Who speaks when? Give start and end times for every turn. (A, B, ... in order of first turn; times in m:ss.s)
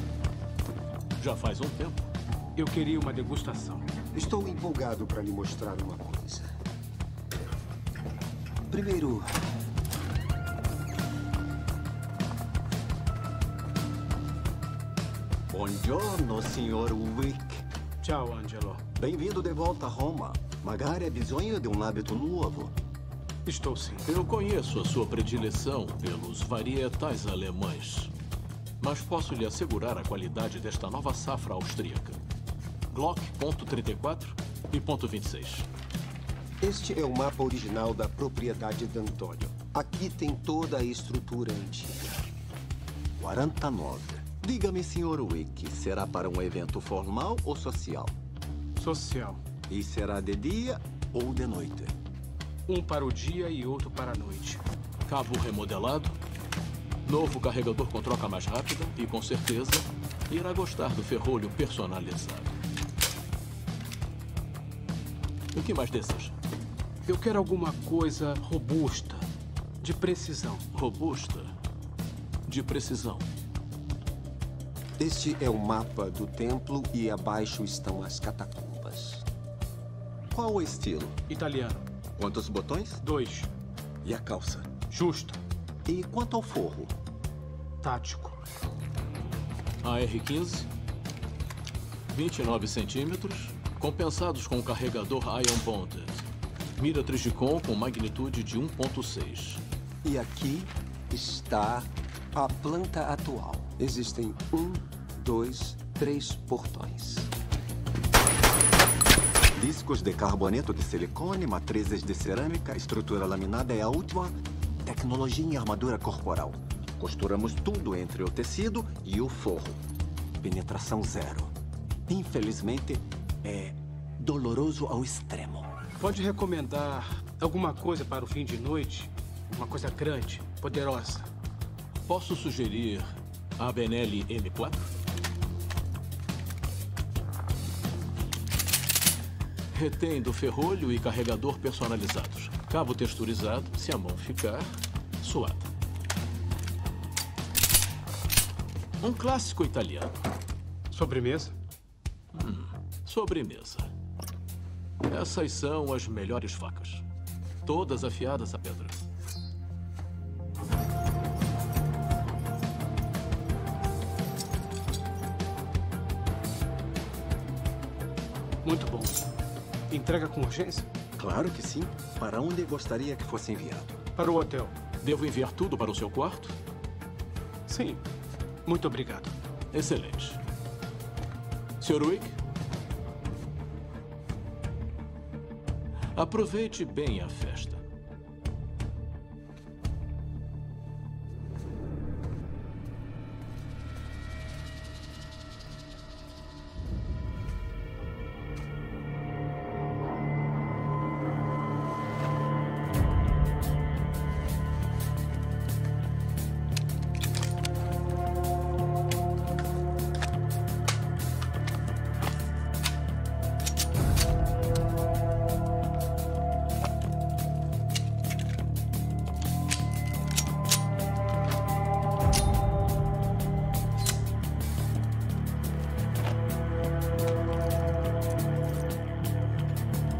0:01.2-0:02.1 A
0:02.6-0:03.8 B
0:04.1-0:06.5 C
0:08.7-0:09.2 C
0:15.5-0:17.6 D
0:18.0-0:18.8 B
0:19.0-0:22.7 D
0:23.4-0:24.1 B
0:24.0-0:28.1 A
0:28.8-0:32.2 A
0:32.9-0:35.7 A
0:36.6-0:42.2 C
0:43.2-0:48.1 D
0:48.8-0:49.4 B
0:49.7-0:51.9 D
0:52.7-0:54.6 B
0:55.0-0:56.2 A
0:57.0-1:02.6 A
1:05.5-1:06.3 A
1:07.0-1:09.3 B
1:09.8-1:10.6 B
1:10.7-1:11.5 A
1:12.4-1:13.3 A
1:15.0-1:19.2 C
1:20.3-1:21.2 D
1:21.3-1:21.8 B
1:22.2-1:23.0 D
1:23.0-1:23.5 B
1:24.0-1:24.7 D
1:24.9-1:25.4 B
1:25.8-1:26.9 D
1:27.8-1:28.4 B
1:29.8-1:30.7 A
1:32.1-1:36.3 A
1:36.8-1:39.6 A
1:40.0-1:47.3 C
1:49.5-1:59.8 D
2:00.4-2:01.5 D
2:02.1-2:05.7 D
2:06.0-2:11.3 B
2:12.0-2:14.9 A
2:19.7-2:25.7 A
2:29.0-2:30.2 A
2:30.9-2:31.5 B
2:32.3-2:33.9 A
2:35.0-2:37.0 A
2:37.6-2:39.0 A
2:48.6-2:49.2 B
2:49.9-2:50.9 B
2:51.2-2:54.0 D
2:54.2-2:54.7 B
2:55.0-2:56.6 A
2:57.7-2:58.0 B
2:58.6-2:59.3 B
2:59.7-3:00.4 A
3:01.8-3:02.4 A
3:06.1-3:07.8 A